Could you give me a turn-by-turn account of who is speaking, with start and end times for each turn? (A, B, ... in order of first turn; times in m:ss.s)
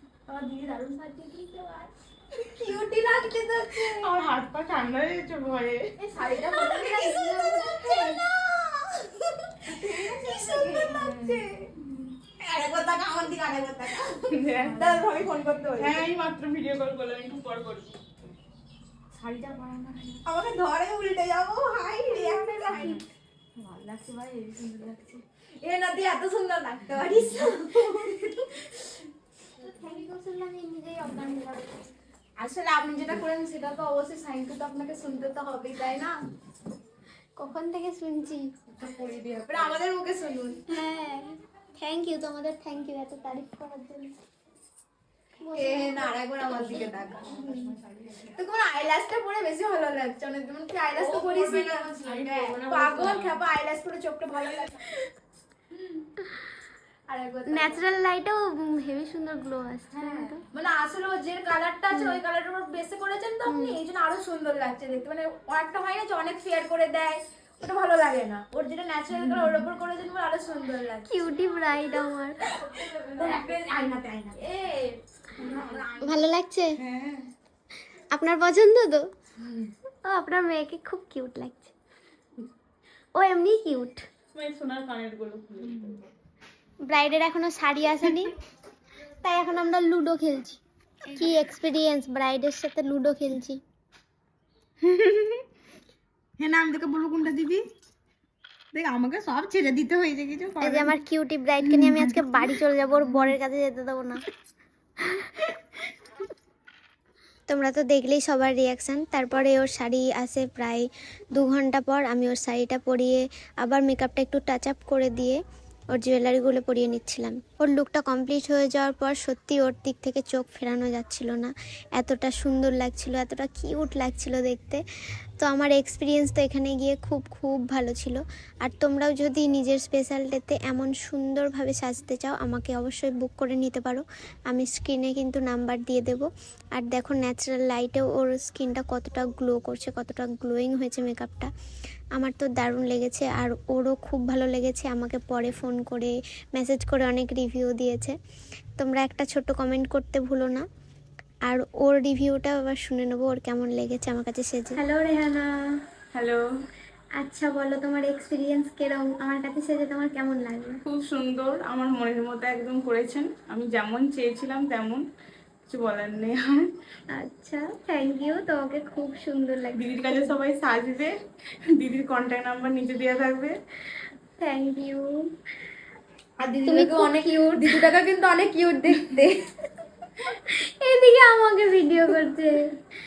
0:00.3-0:04.1 A
0:03.7-0:05.9 B
0:06.0-0:11.7 A
0:10.8-0:11.4 B
0:12.4-0:16.0 A
0:14.3-0:15.1 B
0:15.8-0:18.0 B
0:19.2-0:23.0 A
0:22.1-0:23.0 C
0:22.8-0:23.0 B
0:23.6-0:28.9 A
0:29.6-0:31.8 A
0:32.4-0:36.2 A
0:37.4-0:38.5 C
0:38.8-0:40.6 A
0:40.7-0:44.1 C
0:45.4-0:47.7 C
0:45.5-0:47.5 A
0:48.2-0:54.8 A
0:51.0-0:53.4 B
0:57.1-0:57.8 A
0:57.5-1:00.4 C
1:00.0-1:11.1 A
1:01.9-1:02.2 C
1:03.5-1:03.8 C
1:09.1-1:09.7 B
1:11.0-1:12.4 C
1:12.6-1:16.1 A
1:15.4-1:15.8 B
1:16.0-1:16.8 C
1:16.8-1:17.2 B
1:18.1-1:19.1 C
1:20.0-1:21.7 C
1:23.1-1:24.0 C
1:24.3-1:26.0 B
1:26.8-1:28.3 C
1:29.2-1:30.6 C
1:31.1-1:33.6 C
1:36.4-1:37.6 D
1:38.7-1:40.9 D
1:39.8-1:40.5 B
1:40.6-1:44.2 C
1:47.5-1:55.4 C
1:55.9-2:04.8 C
2:05.4-2:21.5 C
2:22.2-2:28.1 C
2:28.8-2:30.6 C
2:31.5-2:35.5 C
2:36.1-2:36.4 B
2:37.2-2:40.8 C
2:40.9-2:45.0 B
2:45.7-2:46.6 B
2:47.2-2:50.3 C
2:49.7-2:51.1 B
2:51.8-2:53.5 B
2:54.4-2:55.2 C
2:56.4-2:59.4 A
2:56.6-2:57.6 C
3:00.8-3:02.6 C